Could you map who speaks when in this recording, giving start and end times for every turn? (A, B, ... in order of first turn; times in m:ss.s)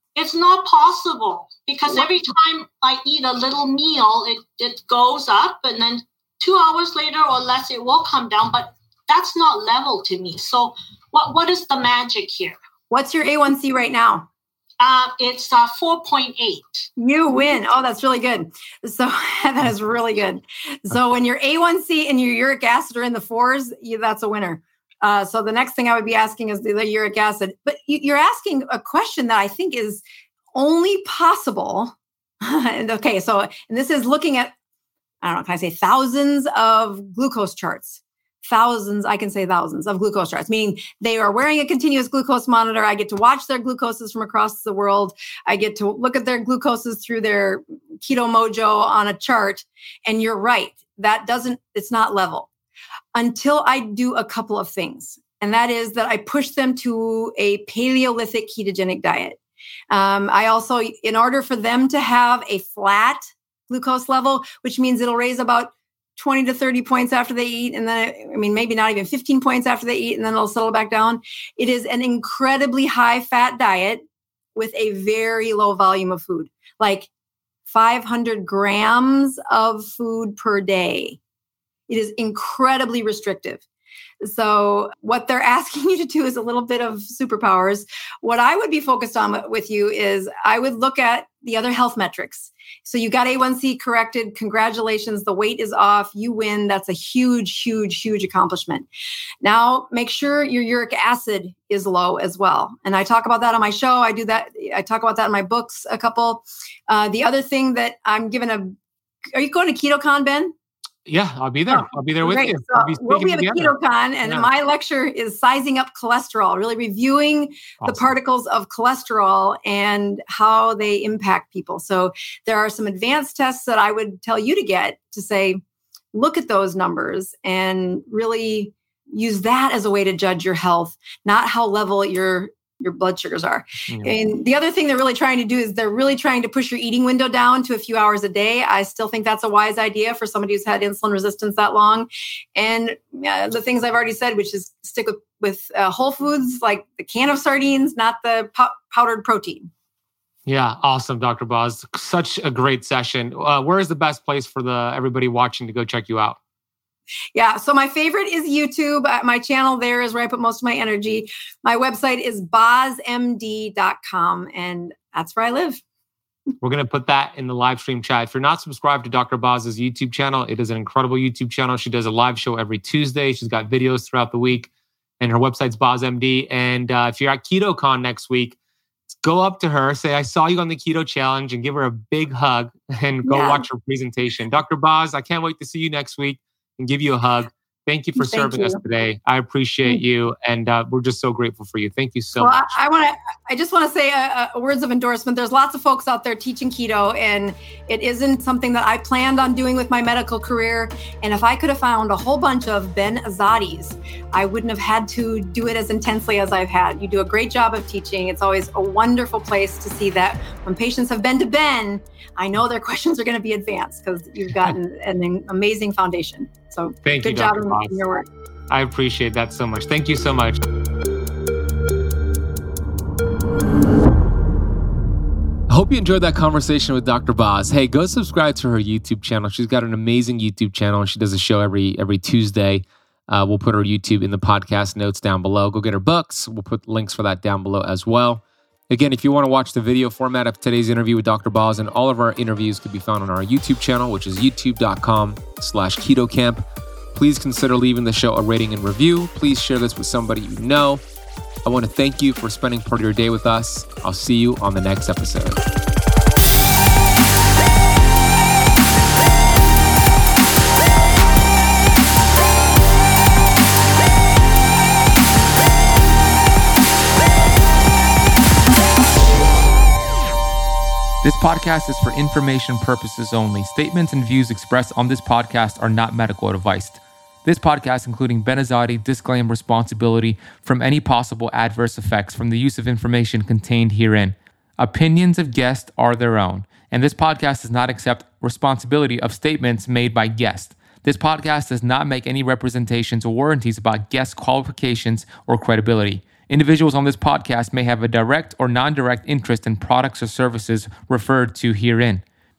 0:00.2-0:12.6 A
0:01.9-0:02.2 B
0:12.9-0:14.3 B
0:14.8-0:16.9 A
0:17.0-0:34.5 B
0:35.2-0:52.5 B
0:53.2-0:59.4 B
0:59.9-1:14.0 B
1:14.6-1:17.1 B
1:17.7-1:21.2 B
1:21.9-1:23.6 B
1:24.2-1:38.9 B
1:39.4-1:48.8 B
1:49.3-1:50.5 B
1:51.1-1:54.5 C
1:51.7-2:05.6 B
1:57.8-1:58.1 C
2:06.1-2:29.7 B
2:13.9-2:14.2 C
2:30.5-2:36.4 C
2:37.3-2:45.8 B
2:46.6-2:54.7 C
2:55.2-2:58.6 C
2:59.2-3:12.8 C
3:03.2-3:03.6 B
3:08.2-3:08.8 B
3:12.4-3:38.3 B
3:37.0-3:38.0 C
3:38.7-3:40.6 C
3:45.7-4:06.6 C
4:07.2-4:11.0 C
4:11.6-4:15.6 C
4:31.2-5:02.2 C